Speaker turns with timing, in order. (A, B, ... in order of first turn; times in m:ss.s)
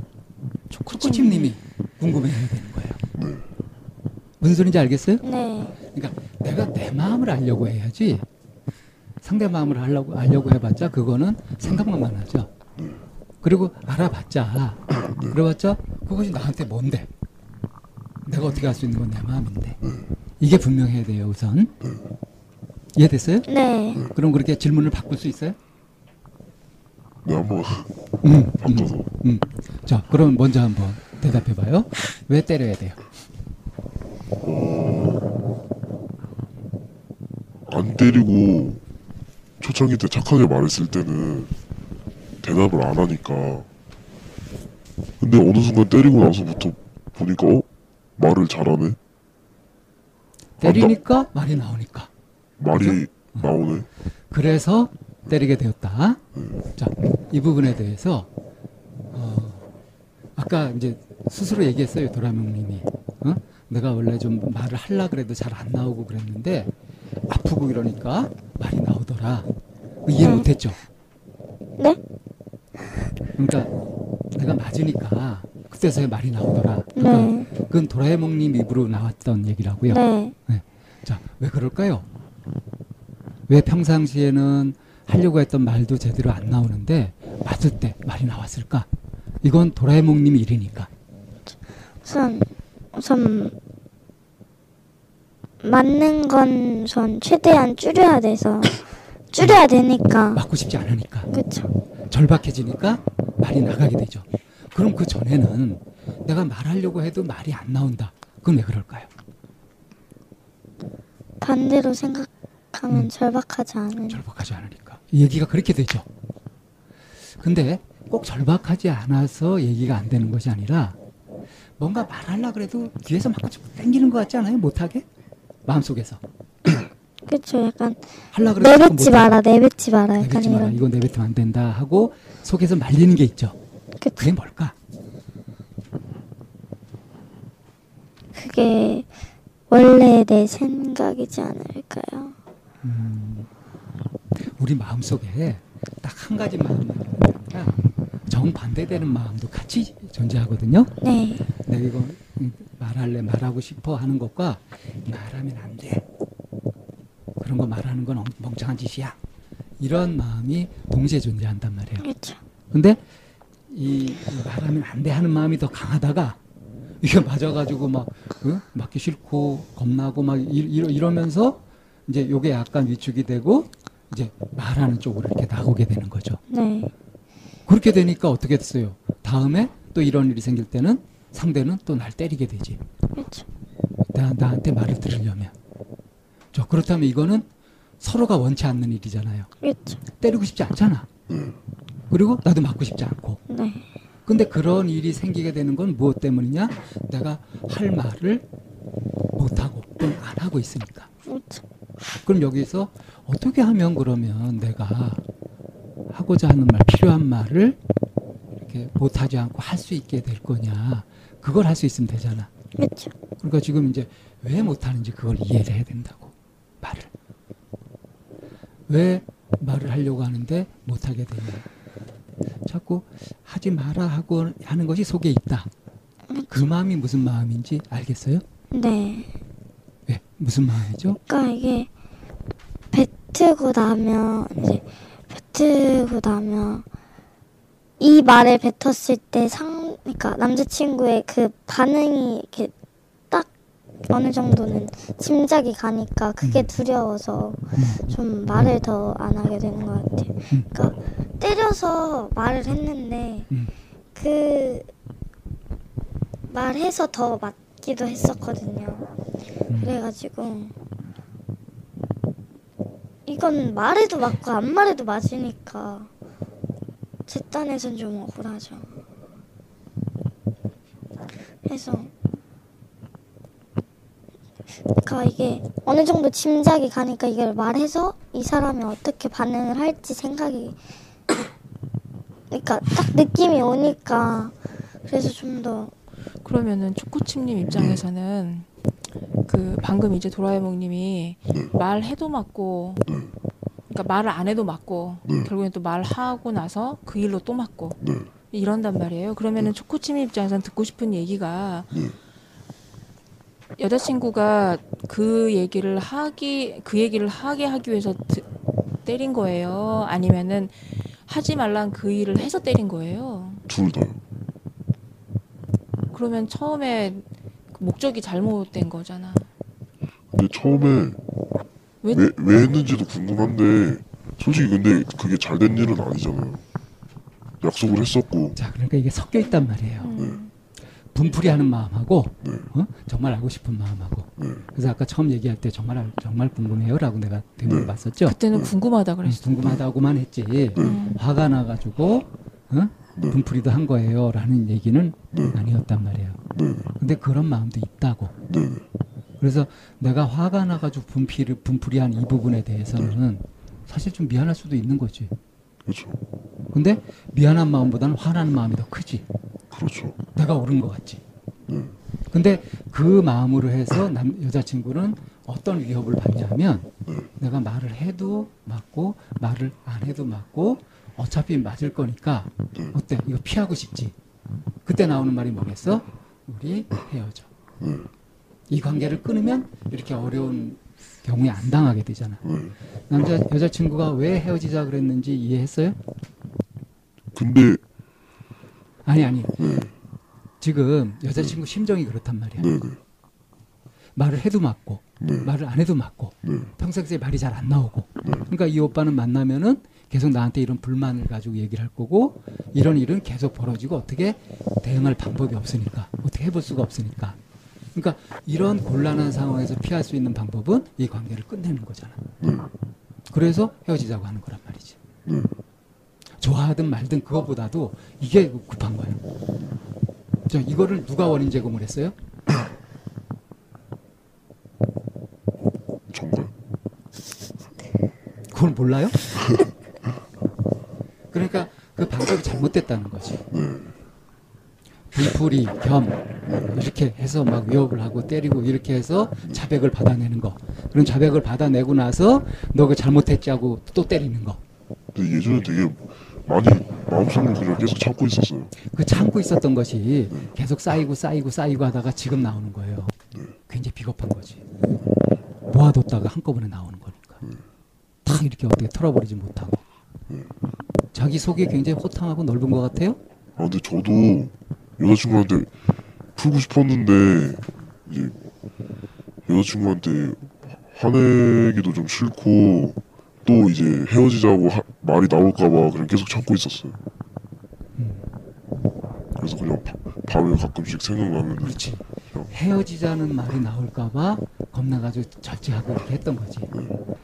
0:00.7-0:01.5 A
0:00.8-0:03.0 B
0:03.2-0:03.4 C
0:04.4-0:05.2 B
0:05.2-0:05.7 D
0:05.9-0:08.2 B
0:09.2-0:12.5 B
0:13.4-0:17.1 B
0:18.2-0:19.8 B
0:20.4-0:21.7 B
0:23.0-0:23.5 B
0:23.5-0:24.0 D
0:24.1-0:25.6 B
0:27.2-0:27.9 C
0:28.2-0:33.0 B
0:28.6-0:29.0 C
0:34.4-0:35.3 C
0:37.6-0:38.8 C
0:39.6-0:41.5 C
0:42.4-0:43.7 C
0:45.2-0:49.0 C
0:50.6-0:52.1 B
0:50.6-0:50.9 C
0:52.6-0:53.9 C
0:52.8-0:53.5 B
0:54.3-0:56.2 B
0:56.8-0:58.3 B
0:59.1-0:59.6 B
1:00.4-1:06.7 B
1:07.3-1:09.5 B
1:10.0-1:10.8 B
1:10.2-1:10.5 D
1:13.4-1:13.7 B
1:14.3-1:22.1 B
1:17.0-1:17.5 D
1:19.9-1:20.3 D
1:23.5-1:28.9 B
1:29.4-1:30.9 B
1:32.0-1:33.5 D
1:35.6-1:40.4 D
1:40.3-1:41.3 B
1:41.3-1:41.7 D
1:42.1-1:49.1 B
1:51.4-1:54.2 D
1:54.1-1:56.0 B
1:57.4-2:01.0 B
2:01.8-2:05.0 B
2:05.6-2:06.2 B
2:07.3-2:10.8 D
2:08.3-2:09.4 B
2:10.2-2:13.6 B
2:14.0-2:14.3 D
2:14.2-2:14.7 B
2:18.3-2:19.1 D
2:19.7-2:22.3 D
2:22.8-2:23.5 B
2:24.6-2:27.7 B
2:28.3-2:30.9 B
2:31.0-2:31.4 D
2:31.6-2:36.0 B
2:37.4-2:39.2 B
2:39.8-2:42.0 B
2:42.0-2:42.4 D
2:42.7-2:43.0 B
2:43.7-2:46.4 B
2:47.0-2:56.4 B
2:56.5-2:56.9 D
2:57.7-3:02.8 B
3:03.2-3:03.4 D
3:04.1-3:05.5 B
3:06.5-3:07.5 B
3:08.0-3:09.5 B
3:09.6-3:10.0 D
3:10.2-3:11.1 B
3:12.1-3:13.4 B
3:13.5-3:13.8 D
3:14.2-3:18.4 B
3:19.4-3:21.1 B
3:21.2-3:21.6 D
3:22.2-3:25.2 B
3:26.1-3:27.8 B
3:28.6-3:32.5 B
3:32.8-3:33.1 D
3:33.4-3:37.1 B
3:38.9-3:41.7 B
3:42.6-3:45.7 B
3:46.3-3:46.6 D
3:46.5-3:48.4 B
3:48.7-3:49.3 D
3:50.1-3:51.2 B
3:51.3-3:51.9 D
3:52.9-3:56.8 D
3:58.0-4:02.7 D
4:04.1-4:13.5 D
4:06.4-4:06.7 B
4:07.8-4:08.7 B
4:14.2-4:14.9 D
4:16.5-4:19.1 D
4:19.7-4:20.0 B
4:19.8-4:20.7 D
4:23.2-4:26.1 D
4:27.3-4:29.0 D
4:31.6-4:32.1 D
4:35.0-4:40.8 D
4:42.5-4:45.9 D
4:46.4-4:48.7 A
4:49.4-4:53.0 A
4:53.9-4:58.0 A
4:58.5-5:02.1 A
5:03.8-5:08.5 A
5:09.0-5:13.6 A
5:13.7-5:14.2 C
5:16.1-5:19.5 A
5:20.3-5:21.2 C
5:22.0-5:22.3 A
5:22.1-5:26.6 C
5:27.6-5:28.5 C
5:28.5-5:30.2 B
5:30.0-5:30.5 A
5:31.1-5:38.4 B
5:38.2-5:39.5 A
5:39.2-5:46.4 B
5:40.8-5:41.2 A
5:47.0-5:48.3 B
5:49.4-5:55.3 B
5:55.8-5:56.2 C
5:56.7-5:59.2 B
5:59.7-6:00.2 C
6:00.3-6:01.2 B
6:02.3-6:06.9 B
6:07.4-6:14.1 B
6:14.8-6:17.5 B
6:18.7-6:22.4 B
6:22.4-6:22.7 C
6:23.1-6:26.0 B
6:27.3-6:27.8 C
6:29.0-6:29.6 B
6:30.6-6:32.7 B
6:32.7-6:33.0 C
6:34.2-6:47.4 B
6:47.9-6:52.2 B
6:52.4-6:52.7 C
6:53.3-6:55.0 B
6:56.4-6:59.2 B
7:00.5-7:02.1 B
7:06.1-7:06.5 C
7:08.5-7:09.2 B
7:11.3-7:13.4 B
7:13.5-7:13.9 C
7:15.1-7:24.6 B
7:25.1-7:28.7 C
7:28.9-7:33.2 B
7:33.7-7:34.6 B
7:35.7-7:37.4 B
7:38.2-7:39.8 B
7:41.1-7:43.2 B
7:43.6-7:45.7 C
7:46.4-7:48.4 C
7:49.4-7:57.0 C
7:58.0-7:58.2 B
7:59.4-8:01.8 C
8:01.6-8:06.7 B